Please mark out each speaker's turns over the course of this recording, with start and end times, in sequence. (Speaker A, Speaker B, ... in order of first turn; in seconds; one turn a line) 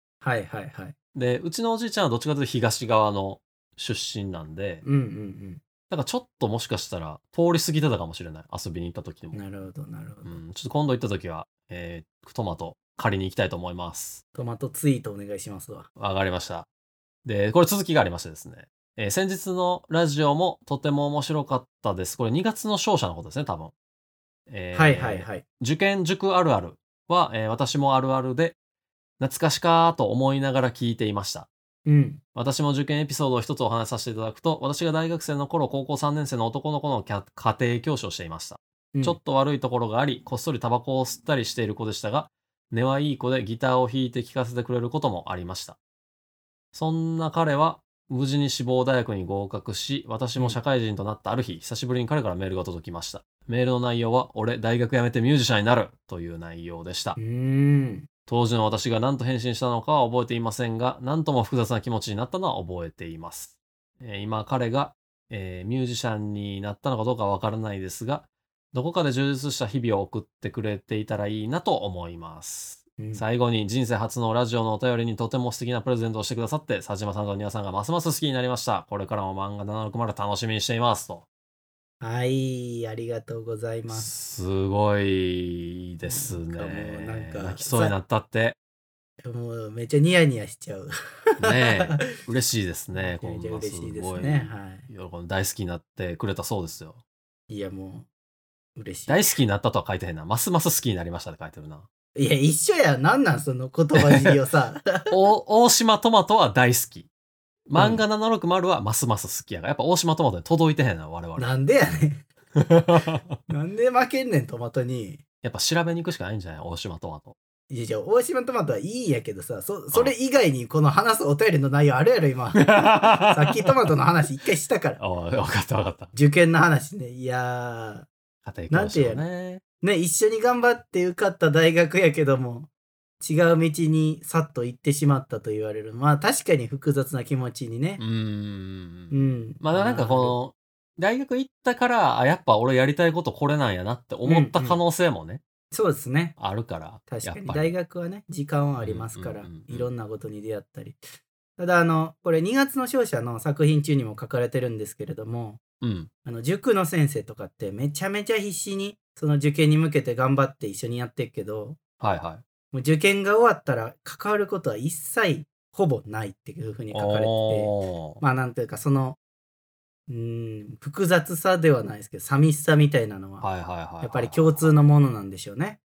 Speaker A: 0.2-0.9
Speaker B: 1.1-4.8
Speaker A: 4.8-5.6
Speaker B: 5.9-9.4
Speaker A: 9.3-10.4
Speaker B: 10.2-14.2
Speaker A: 14.3-15.9
Speaker B: 16.0-16.7
Speaker B: 17.2-23.7
Speaker B: 24.5-28.6
Speaker A: 24.7-25.4
Speaker B: 29.2-31.5
Speaker A: 31.9-32.2
Speaker B: 32.4-45.8
Speaker B: 46.7-57.2
Speaker A: 57.2-58.1
Speaker B: 58.3-81.3
Speaker A: 73.0-73.2
Speaker A: 82.0-84.1
Speaker B: 83.9-88.6
Speaker A: 86.1-88.0
Speaker A: 89.2-90.9
Speaker B: 91.4-97.0
Speaker A: 91.4-92.0
Speaker A: 92.9-94.9
Speaker A: 97.5-98.1
Speaker A: 98.8-99.3
Speaker B: 99.1-101.9
Speaker A: 102.2-105.1
Speaker B: 104.0-104.4
Speaker B: 105.1-107.1
Speaker B: 107.7-111.5
Speaker A: 107.8-108.0
Speaker A: 111.4-112.3
Speaker B: 112.6-113.2
Speaker A: 113.5-115.2
Speaker B: 115.4-117.3
Speaker A: 117.7-125.0
Speaker B: 122.5-123.7
Speaker B: 125.0-126.1
Speaker A: 126.1-128.1
Speaker B: 128.4-129.6
Speaker A: 128.7-129.2
Speaker A: 129.8-132.7
Speaker A: 133.2-138.0
Speaker B: 138.0-145.4
Speaker A: 139.1-140.4
Speaker A: 144.2-144.8
Speaker A: 145.7-146.4
Speaker B: 146.4-147.7
Speaker A: 147.1-151.1
Speaker B: 148.8-149.9
Speaker A: 151.6-155.6
Speaker B: 155.8-156.1
Speaker A: 156.2-161.8
Speaker B: 162.0-162.4
Speaker A: 162.7-169.2
Speaker B: 166.9-168.2
Speaker A: 170.1-173.5
Speaker B: 173.4-174.8
Speaker A: 174.0-175.8